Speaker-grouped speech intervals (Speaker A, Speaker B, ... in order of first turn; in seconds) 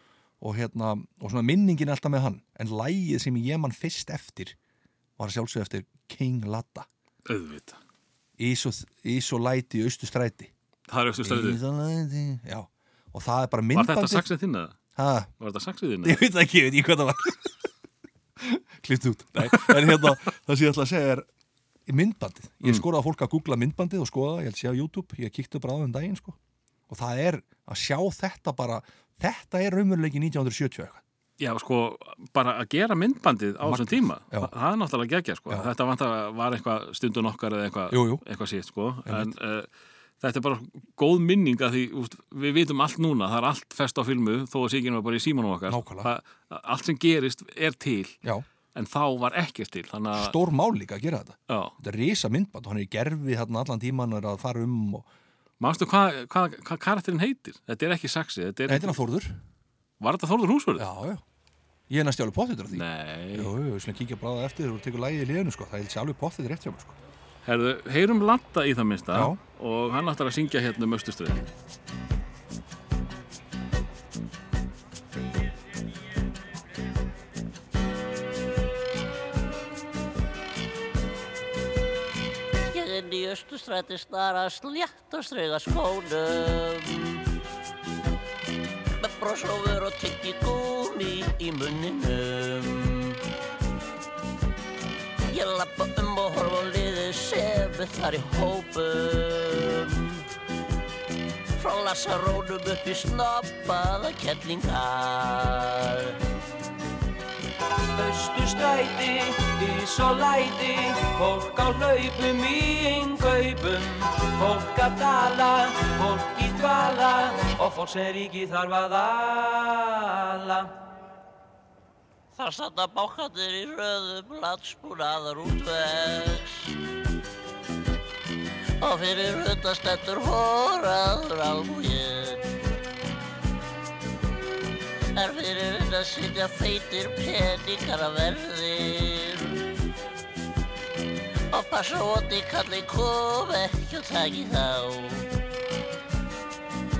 Speaker A: 0.4-4.5, 5.2-6.9, 8.4-10.5, 11.2-14.3, 14.9-15.3, 16.0-17.6, 18.4-21.3, 21.9-26.4, 26.9-31.0, 33.6-34.5, 37.9-38.2, 39.0-39.3, 45.7-46.1, 50.1-55.1, 58.7-59.4, 60.8-61.2, 61.9-66.9, 69.1-69.4
Speaker B: 7.2-7.8, 10.9-11.6, 13.7-14.8, 15.4-16.2, 19.4-20.0, 31.4-39.7, 40.2-48.2, 48.7-50.3, 51.5-51.7, 55.6-59.0, 60.0-60.9, 62.7-63.5, 67.4-71.5
Speaker C: 82.7-87.2, 89.0-93.2, 95.3-100.2, 101.6-106.2, 122.3-126.8, 128.8-132.5, 135.1-139.6, 141.5-145.3
Speaker D: 107.9-120.7